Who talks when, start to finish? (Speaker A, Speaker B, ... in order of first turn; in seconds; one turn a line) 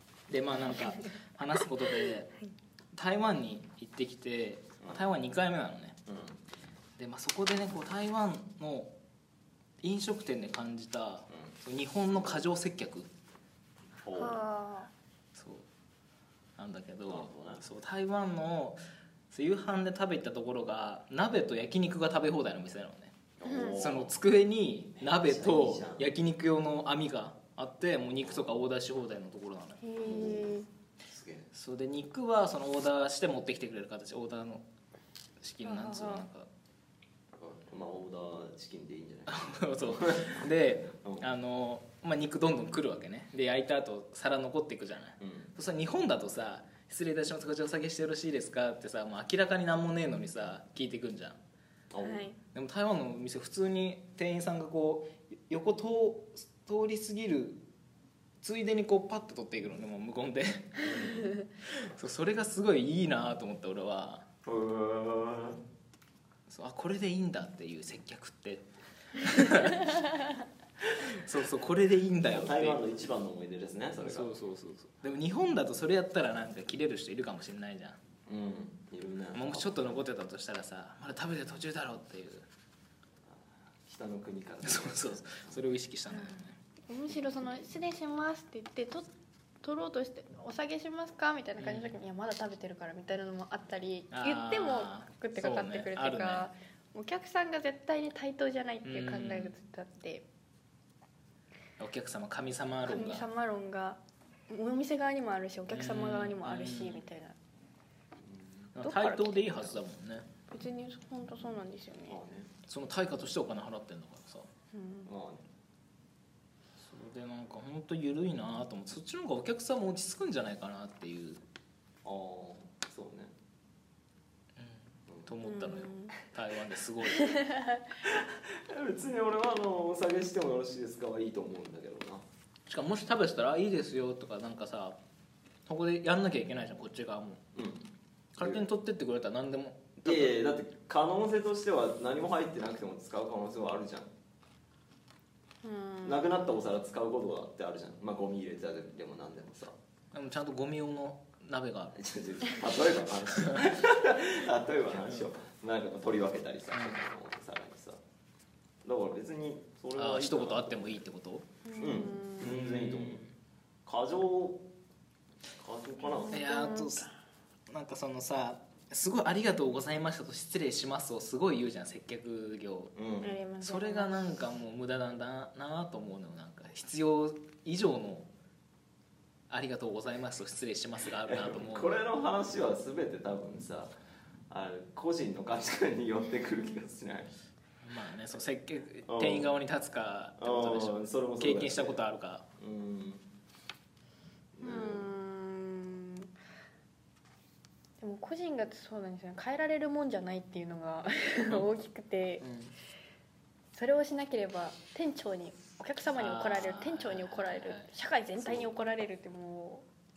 Speaker A: 0.3-2.3
Speaker A: 2.9-6.0
Speaker B: 6.1-6.4
Speaker A: 7.0-8.9
Speaker A: 9.8-13.1
Speaker B: 14.0-14.4
Speaker C: 14.1-14.9
Speaker A: 15.3-15.7
Speaker A: 16.6-18.8
Speaker B: 17.1-17.6
Speaker A: 19.3-29.8
Speaker B: 23.4-24.1
Speaker C: 23.4-23.9
Speaker B: 25.0-26.1
Speaker B: 28.2-28.6
Speaker C: 29.8-30.7
Speaker B: 30.0-31.5
Speaker A: 31.5-34.6
Speaker A: 35.4-36.5
Speaker C: 35.6-36.3
Speaker B: 37.4-40.5
Speaker A: 39.3-51.4
Speaker B: 41.0-41.3
Speaker B: 45.2-45.5
Speaker B: 51.9-52.3
Speaker C: 52.0-52.4
Speaker A: 52.5-57.6
Speaker A: 58.4-60.9
Speaker B: 60.8-61.3
Speaker A: 61.6-64.2
Speaker B: 64.4-65.6
Speaker A: 66.5-70.0
Speaker A: 71.0-72.8
Speaker B: 72.3-74.3
Speaker A: 74.0-78.0
Speaker B: 78.2-79.9
Speaker A: 79.3-82.5
Speaker B: 83.8-85.6
Speaker A: 84.6-86.5
Speaker C: 86.1-89.1
Speaker C: 89.6-100.2
Speaker A: 91.6-91.9
Speaker A: 94.1-96.5
Speaker A: 98.8-99.5
Speaker A: 101.8-103.3
Speaker C: 102.9-107.3
Speaker A: 105.7-107.0
Speaker B: 108.2-108.6
Speaker A: 108.7-110.2
Speaker C: 108.8-109.8
Speaker C: 110.5-112.2
Speaker B: 112.1-112.5
Speaker A: 112.7-114.5
Speaker C: 114.7-115.1
Speaker B: 115.0-115.4
Speaker A: 116.8-121.4
Speaker B: 122.0-123.3
Speaker A: 124.6-127.4
Speaker C: 125.4-126.2
Speaker C: 127.1-127.8
Speaker B: 128.0-132.2
Speaker A: 132.7-135.0
Speaker A: 135.7-137.4
Speaker B: 137.5-137.9
Speaker A: 138.3-140.3
Speaker B: 140.0-144.1
Speaker C: 145.6-146.2
Speaker B: 146.0-149.7
Speaker A: 150.1-152.0
Speaker B: 151.9-158.0
Speaker A: 156.7-157.0
Speaker B: 158.8-161.0
Speaker A: 159.9-161.4
Speaker C: 161.6-162.5
Speaker B: 161.8-163.2
Speaker A: 162.4-163.3
Speaker B: 163.8-164.6
Speaker B: 165.6-166.4
Speaker C: 166.0-167.1
Speaker A: 166.3-167.1
Speaker A: 167.7-172.9
Speaker B: 172.9-173.4
Speaker C: 173.2-174.1
Speaker A: 173.6-178.3
Speaker A: 179.5-181.9
Speaker B: 181.2-183.9
Speaker B: 184.5-187.3
Speaker A: 187.8-192.4
Speaker B: 189.1-189.5
Speaker B: 190.4-192.0
Speaker B: 192.6-193.2
Speaker B: 194.6-195.1
Speaker C: 194.6-196.3
Speaker C: 198.0-202.4
Speaker A: 202.4-202.7
Speaker C: 203.7-209.8
Speaker A: 206.1-207.9
Speaker B: 208.4-208.7